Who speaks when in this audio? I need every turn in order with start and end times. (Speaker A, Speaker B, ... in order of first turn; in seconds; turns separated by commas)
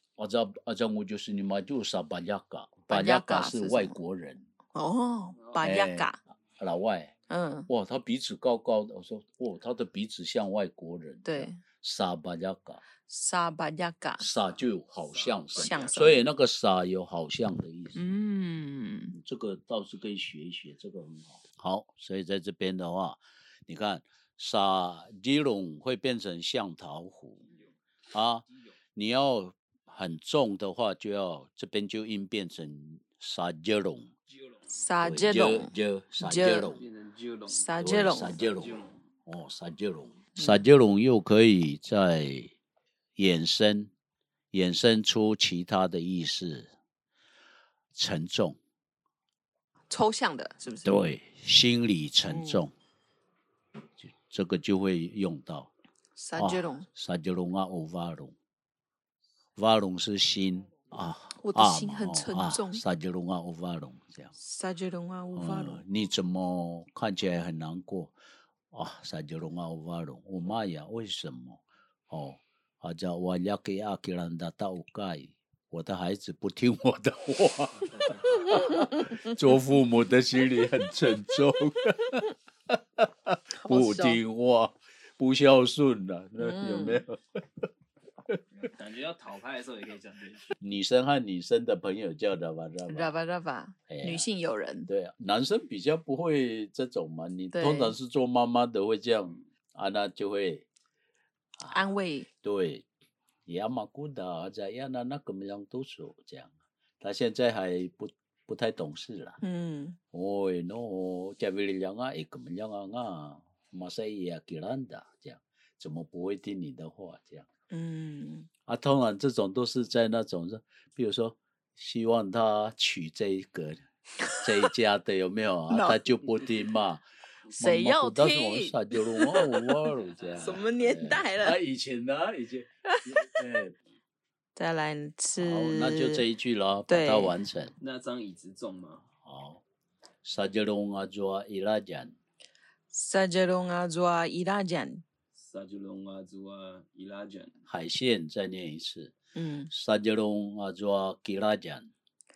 Speaker A: 0.2-4.5, Speaker B: 2.9-4.0, Speaker B: 4.7-6.2, Speaker C: 5.3-5.7, Speaker A: 5.6-7.1, Speaker B: 7.3-7.7, Speaker A: 7.7-12.8, Speaker B: 11.2-11.6, Speaker B: 13.1-14.2, Speaker A: 14.2-18.0, Speaker C: 15.0-16.0, Speaker B: 15.6-16.2, Speaker B: 18.0-19.2, Speaker A: 19.1-27.5, Speaker A: 28.1-34.1, Speaker C: 34.3-34.7, Speaker B: 34.7-36.7, Speaker A: 35.0-36.9, Speaker C: 36.7-39.0, Speaker B: 37.5-38.4, Speaker A: 37.8-42.5, Speaker A: 43.2-43.9, Speaker A: 44.5-46.7, Speaker A: 48.0-48.6, Speaker B: 49.9-50.9, Speaker A: 50.8-52.7, Speaker B: 52.3-52.6, Speaker A: 54.0-55.7, Speaker B: 56.2-56.9, Speaker A: 56.4-58.4, Speaker A: 59.6-64.3, Speaker B: 61.4-62.8, Speaker B: 64.4-65.8, Speaker A: 65.3-68.2, Speaker A: 68.7-87.7, Speaker C: 77.8-78.5, Speaker B: 83.5-84.2, Speaker B: 86.4-87.0, Speaker C: 88.5-90.5, Speaker A: 90.6-93.1, Speaker B: 92.9-94.9, Speaker A: 93.9-94.3, Speaker A: 94.9-100.7, Speaker B: 97.5-98.0, Speaker A: 101.6-101.9, Speaker B: 101.7-102.3, Speaker A: 102.4-102.8, Speaker A: 103.5-109.4, Speaker B: 109.4-110.0, Speaker A: 110.1-117.5, Speaker B: 117.7-118.5, Speaker A: 118.7-123.8, Speaker A: 124.4-133.8, Speaker B: 125.7-126.0, Speaker B: 127.5-129.8, Speaker C: 130.1-130.7, Speaker B: 130.3-131.6, Speaker B: 132.9-133.2, Speaker B: 134.6-136.2, Speaker A: 135.4-137.8, Speaker B: 136.9-137.3, Speaker C: 137.8-139.1, Speaker A: 139.2-139.6, Speaker A: 140.2-142.2, Speaker B: 142.9-145.0, Speaker C: 145.3-147.6, Speaker A: 147.7-149.1, Speaker B: 149.3-149.7, Speaker A: 149.7-151.9